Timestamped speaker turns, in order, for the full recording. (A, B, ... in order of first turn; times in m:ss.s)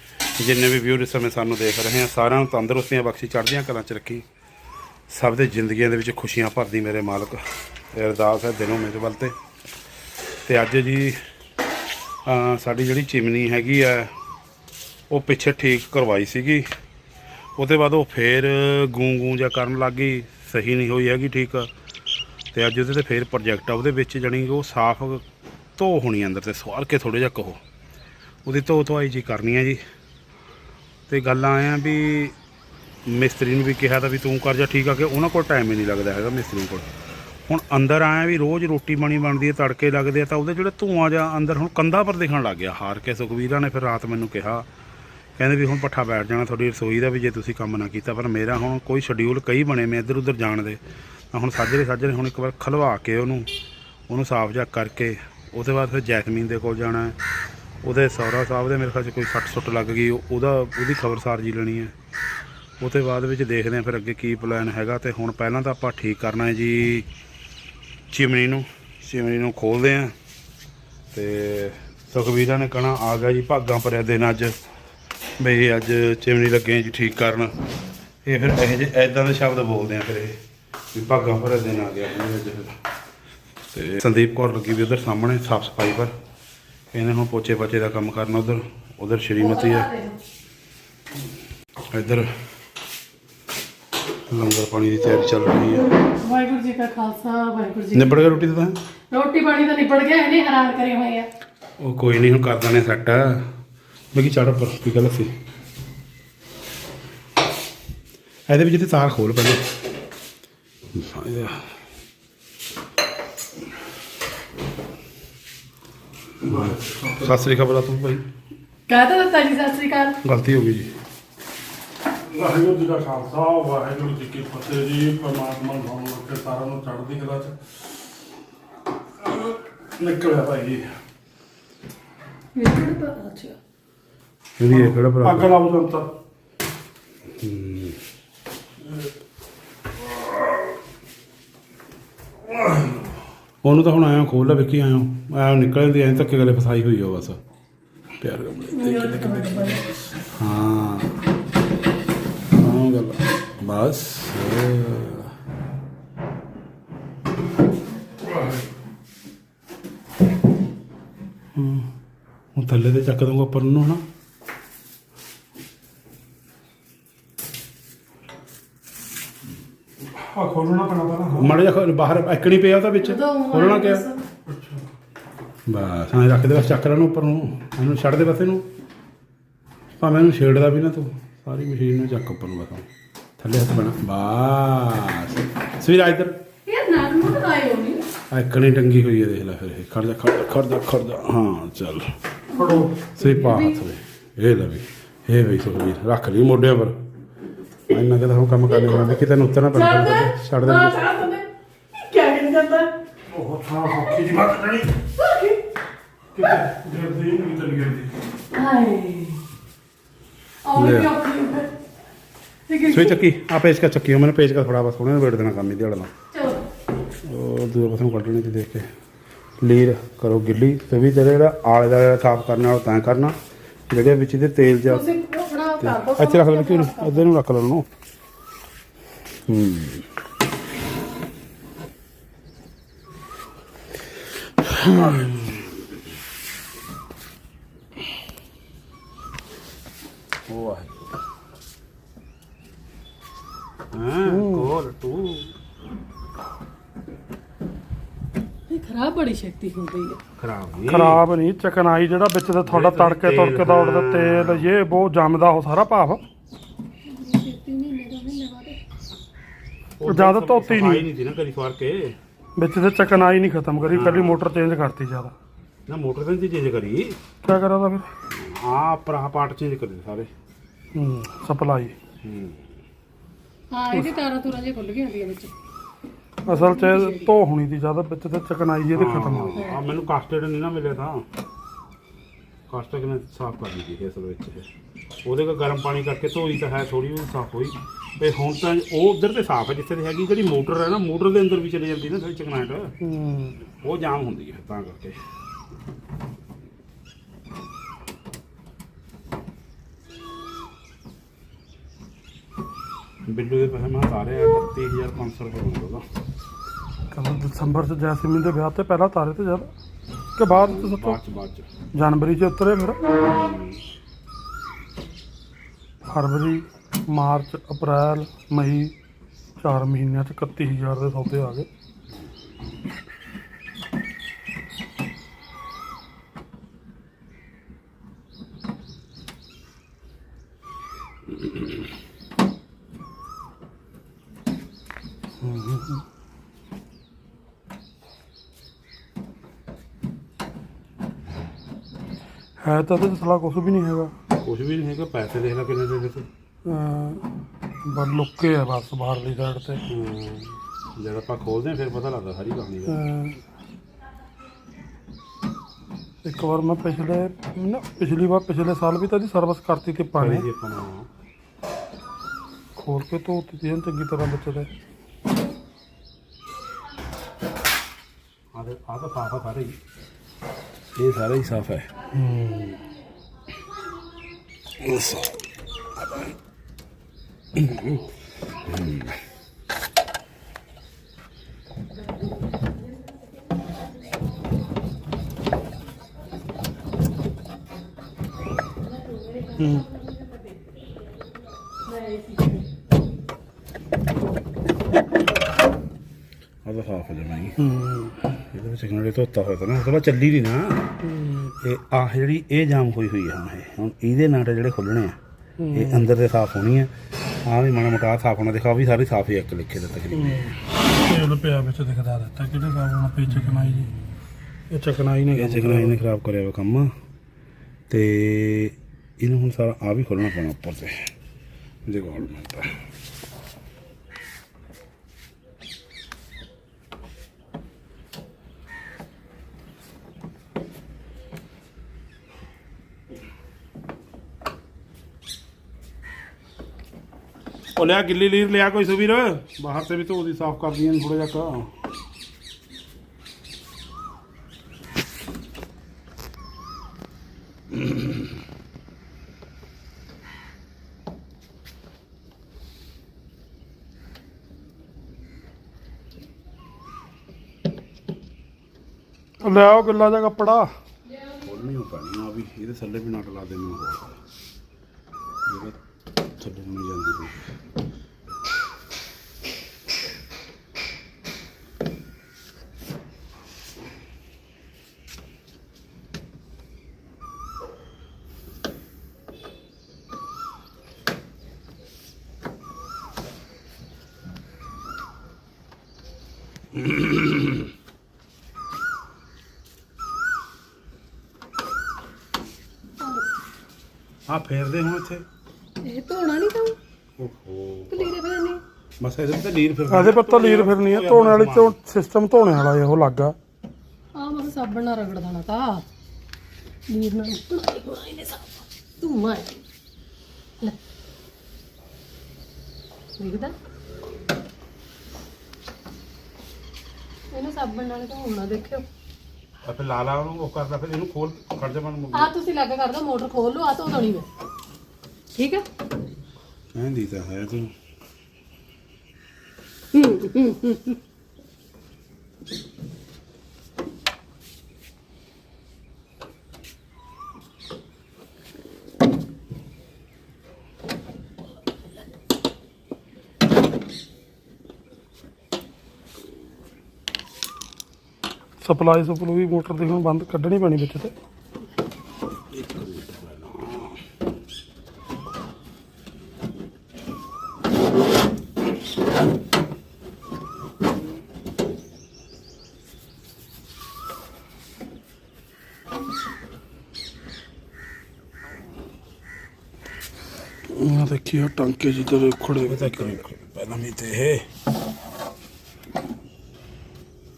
0:00.3-0:04.2 A
0:05.1-0:07.4 A
0:07.9-0:09.3 A
0:10.5-0:11.2 A
0:12.2-0:14.1 A
0:15.1-0:16.7 A
0:17.6-0:21.7 A
0:22.5-0:25.2 A
0:25.8-0:27.6 A
0:28.4-0:29.8 A
0:31.1-0:32.3 A
0:33.0-0:36.9 A
0:37.5-0:44.7 A
0:45.4-0:50.8 A
0:51.3-0:53.5 A
0:54.1-0:57.2 A
0:57.8-1:01.9 A
1:02.8-1:07.1 A
1:08.1-1:10.1 A
1:11.1-1:14.6 A
1:15.4-1:17.5 A
1:18.2-1:20.4 A
1:20.9-1:22.8 A
1:23.7-1:26.1 A
1:26.9-1:29.9 A
1:29.4-1:30.2 B
1:31.9-1:32.3 A
1:34.3-1:35.9 A
1:36.1-1:38.3 B
1:37.9-1:38.8 A
1:39.1-1:41.3 B
1:41.8-1:43.5 A
1:44.1-1:45.4 A
1:48.5-1:49.7 A
1:50.9-1:51.7 A
1:56.4-1:57.4 C
1:56.5-1:58.3 A
1:58.9-2:00.2 B
2:00.2-2:00.9 A
2:02.2-2:07.9 C
2:09.2-2:11.0 C
2:12.5-2:13.6 B
2:14.6-2:15.5 A
2:14.7-2:16.1 C
2:17.3-2:18.0 A
2:22.5-2:23.0 C
2:23.6-2:27.4 A
2:28.2-2:29.0 A
2:28.7-2:29.8 B
2:29.0-2:29.8 C
2:30.4-2:31.1 A
2:32.5-2:35.3 A
2:41.5-2:41.9 C
2:42.5-2:44.0 A
2:50.1-2:51.6 C
2:51.3-2:54.0 A
2:53.0-2:54.2 B
2:54.5-2:54.8 C
2:55.7-2:58.6 A
3:00.0-3:02.8 A
3:03.4-3:06.4 A
3:06.6-3:08.0 B
3:08.3-3:12.2 A
3:12.5-3:13.8 B
3:12.6-3:12.9 C
3:13.1-3:17.0 A
3:17.9-3:21.0 A
3:18.7-3:19.2 B
3:19.7-3:21.4 B
3:22.0-3:22.9 B
3:23.3-3:25.1 C
3:25.2-3:25.6 B
3:26.3-3:28.1 C
3:28.5-3:29.4 B
3:30.6-3:31.7 B
3:30.7-3:31.1 A
3:32.7-3:33.2 B
3:32.8-3:36.1 A
3:36.3-3:36.7 B
3:37.2-3:38.9 A
3:39.6-3:43.4 A
3:43.9-3:45.1 A
3:44.8-3:47.3 B
3:45.8-3:47.9 A
3:49.5-3:50.1 A
3:54.6-3:55.9 A
4:00.5-4:00.9 A
4:03.9-4:05.5 A
4:04.3-4:04.7 C
4:08.7-4:10.2 B
4:10.4-4:11.2 A
4:10.9-4:16.2 C
4:12.6-4:14.7 A
4:17.0-4:18.8 B
4:20.0-4:22.2 A
4:20.1-4:21.0 C
4:22.6-4:25.3 C
4:23.9-4:24.4 A
4:25.9-4:27.2 A
4:27.4-4:28.1 C
4:28.3-4:30.3 A
4:30.9-4:32.0 C
4:32.2-4:32.8 A
4:33.7-4:35.5 B
4:36.4-4:37.3 B
4:36.4-4:39.6 C
4:38.9-4:41.2 A
4:42.7-4:44.7 A
4:45.2-4:52.9 A
4:53.0-4:53.6 C
4:53.8-4:55.2 A
5:03.2-5:06.0 A
5:07.1-5:09.7 C
5:10.4-5:11.2 C
5:10.5-5:11.7 A
5:11.9-5:13.0 C
5:13.2-5:13.8 A
5:16.0-5:18.9 C
5:19.6-5:21.7 C
5:35.4-5:36.0 C
5:42.6-5:44.1 C
5:44.4-5:46.3 A
5:46.6-5:47.2 C
5:47.8-5:49.8 C
5:49.9-5:53.0 A
5:52.9-5:53.4 C
5:56.2-6:00.4 C
6:00.2-6:01.1 A
6:02.8-6:04.7 C
6:08.5-6:09.8 A
6:11.0-6:11.9 A
6:12.1-6:12.8 C
6:14.8-6:15.4 A
6:16.0-6:16.3 A
6:17.5-6:18.0 A
6:18.6-6:19.2 A
6:28.9-6:30.4 B
6:29.6-6:29.9 C
6:31.8-6:32.7 B
6:36.6-6:37.6 A
6:37.6-6:38.3 C
6:38.5-6:40.9 A
6:41.0-6:41.5 C
6:41.6-6:45.2 A
6:45.6-6:46.1 C
6:45.7-6:46.9 A
6:47.4-6:50.4 A
6:50.1-6:53.9 C
6:54.7-6:56.0 C
6:55.3-6:56.9 A
6:57.9-7:01.1 A
7:01.8-7:02.8 A
7:17.7-7:21.7 A
7:39.4-7:40.7 C
7:41.4-7:44.2 A
7:45.4-7:45.8 A
7:46.4-7:47.4 A
8:06.8-8:07.2 A
8:13.0-8:13.3 B
8:14.3-8:15.2 A
8:15.8-8:16.8 B
8:17.2-8:18.1 A
8:17.9-8:18.6 B
8:19.0-8:21.8 A
8:19.9-8:23.4 C
8:24.2-8:25.8 B
8:26.9-8:29.6 B
8:33.2-8:33.5 B
8:37.3-8:38.8 B
8:39.6-8:42.3 A
8:42.1-8:44.2 B
8:45.3-8:45.6 B
8:46.7-8:47.7 A
8:49.9-8:51.0 B
9:08.6-9:11.1 C
9:12.5-9:14.0 A
9:30.7-9:33.1 C
9:32.6-9:34.5 A